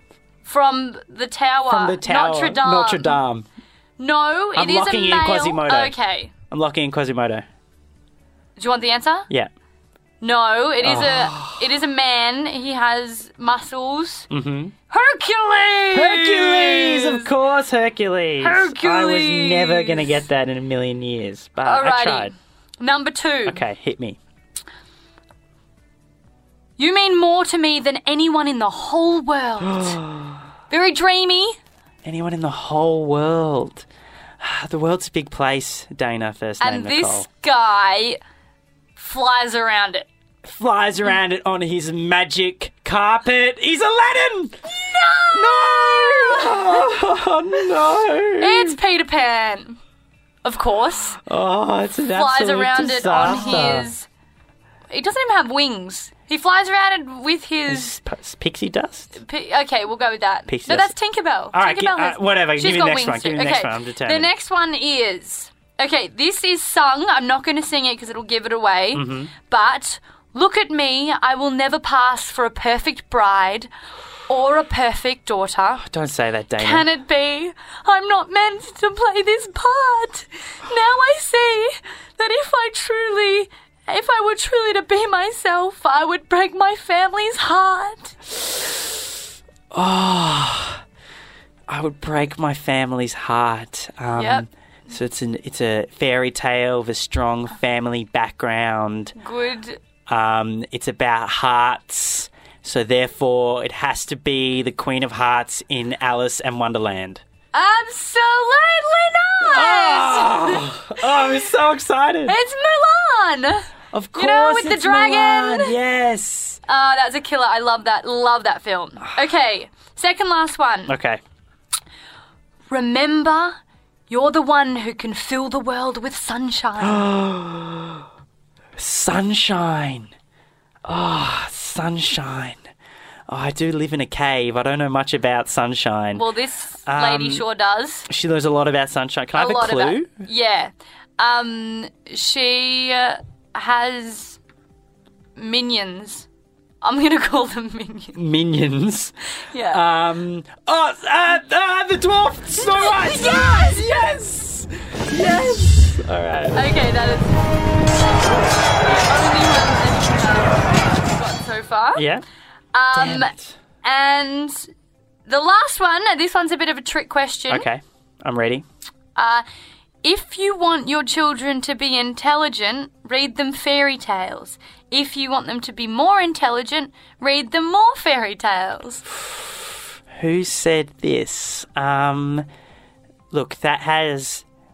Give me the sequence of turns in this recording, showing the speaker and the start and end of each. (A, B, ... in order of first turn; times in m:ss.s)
0:00.4-0:03.2 A
0:01.7-0:03.5 B
0:04.0-0:06.3 A
0:04.6-0:07.5 B
0:08.6-0:09.3 A
0:10.2-0:14.3 A
0:10.8-0:11.6 B
0:14.3-0:14.8 B
0:14.9-0:17.3 A
0:15.9-0:22.3 B
0:18.4-0:20.2 A
0:21.6-0:23.6 A
0:23.5-0:24.2 B
0:26.8-0:30.0 A
0:29.6-0:30.5 B
0:30.7-0:31.6 A
0:32.0-0:33.9 B
0:34.4-0:37.3 B
0:36.6-0:38.2 A
0:39.0-0:40.1 A
0:40.4-0:44.6 B
0:44.7-0:46.9 A
0:45.3-0:48.8 B
0:48.4-0:49.8 A
0:50.4-0:51.2 A
0:51.2-0:53.9 B
0:52.1-0:54.1 A
0:54.9-0:58.0 A
0:57.7-0:59.1 B
0:59.2-1:13.7 A
1:00.5-1:01.0 B
1:01.5-1:04.3 B
1:08.9-1:09.3 B
1:14.3-1:15.8 A
1:15.8-1:16.9 B
1:16.6-1:28.2 A
1:29.7-1:30.8 B
1:31.7-1:39.2 B
1:34.2-1:34.4 A
1:39.2-1:39.8 A
1:40.1-1:47.2 B
1:47.5-1:50.7 A
1:49.4-1:52.4 B
1:52.3-1:55.8 A
1:53.9-1:56.6 B
1:56.7-2:01.0 A
2:00.9-2:01.2 B
2:02.7-2:03.6 A
2:04.1-2:07.0 A
2:06.8-2:08.1 B
2:08.8-2:10.1 B
2:10.8-2:12.6 B
2:13.3-2:16.3 B
2:16.2-2:18.1 A
2:16.9-2:17.4 B
2:18.1-2:20.3 B
2:19.4-2:24.4 A
2:25.4-2:26.3 A
2:26.8-2:28.2 A
2:28.2-2:29.2 B
2:29.5-2:29.8 A
2:29.7-2:36.7 B
2:32.6-2:33.8 A
2:36.5-2:37.4 A
2:38.9-2:42.1 A
2:42.0-2:42.2 B
2:42.7-2:44.7 A
2:42.9-2:43.6 B
2:45.3-2:47.7 A
2:47.5-2:48.7 B
2:49.2-2:49.4 A
2:50.0-2:59.0 A
2:59.1-3:02.5 B
3:03.3-3:04.4 B